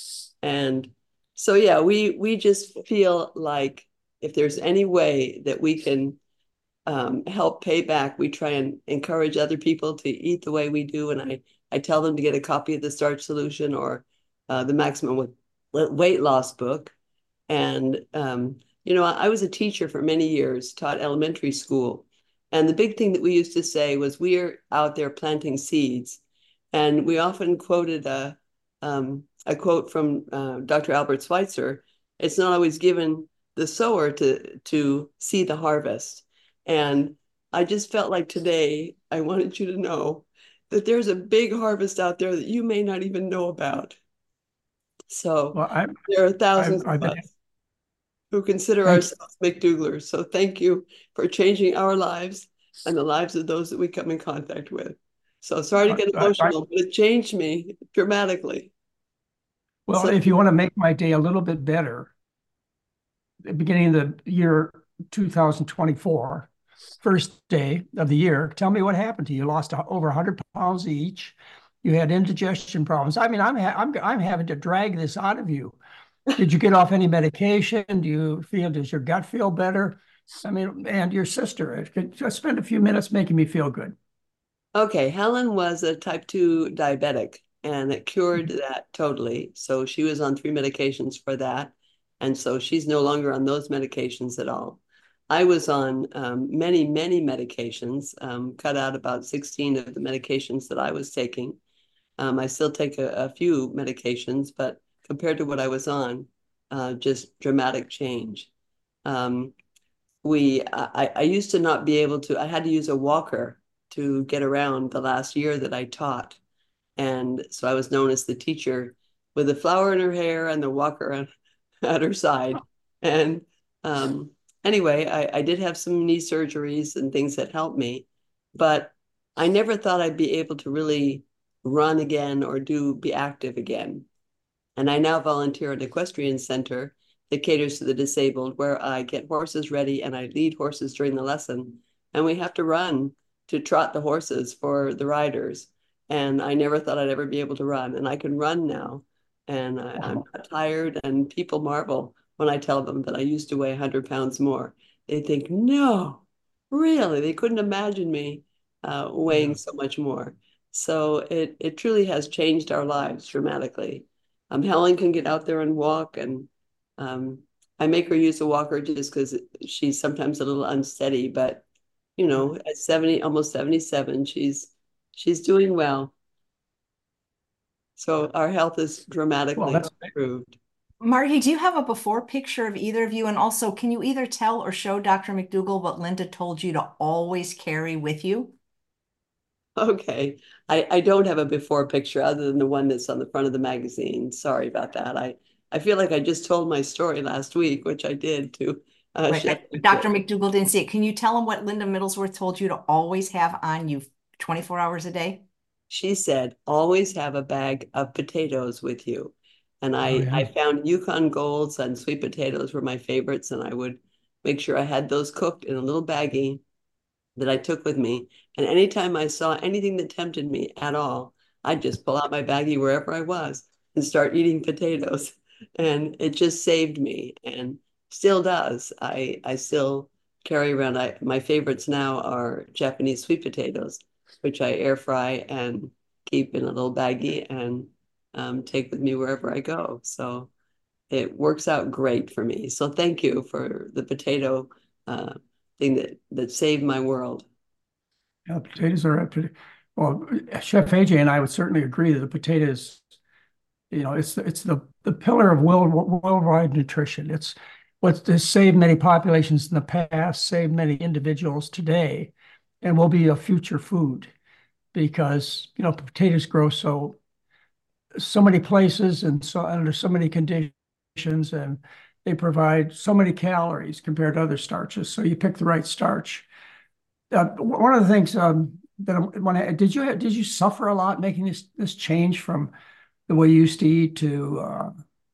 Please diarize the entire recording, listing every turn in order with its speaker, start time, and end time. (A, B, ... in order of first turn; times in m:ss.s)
0:00.4-0:06.2 A
0:06.8-0:16.9 A
0:17.5-0:26.2 A
0:26.7-0:44.0 A
0:45.1-0:47.3 A
0:45.5-0:46.0 B
0:46.6-0:47.2 B
0:48.3-0:58.7 A
0:55.9-0:56.5 B
0:59.9-1:02.1 B
0:59.9-1:00.4 A
1:03.4-1:06.5 B
1:07.0-1:15.8 B
1:16.4-1:23.9 B
1:24.7-1:41.6 A
1:42.2-1:48.5 A
1:49.0-1:49.5 A
1:50.2-1:56.4 A
1:57.0-2:01.3 A
2:01.8-2:14.1 A
2:14.8-2:51.6 A
2:30.0-2:30.2 B
2:39.3-2:39.6 B
2:52.2-2:56.1 A
2:58.0-3:00.6 A
2:59.6-3:00.1 B
3:01.0-3:08.5 C
3:09.8-3:20.1 A
3:19.3-3:25.4 C
3:25.9-3:36.6 A
3:30.0-3:30.5 B
3:37.4-4:00.5 A
4:01.1-4:07.4 A
4:08.5-4:13.0 B
4:13.9-4:24.3 B
4:24.9-4:27.2 B
4:28.2-4:36.5 B
4:37.3-4:42.7 B
4:43.3-4:44.9 B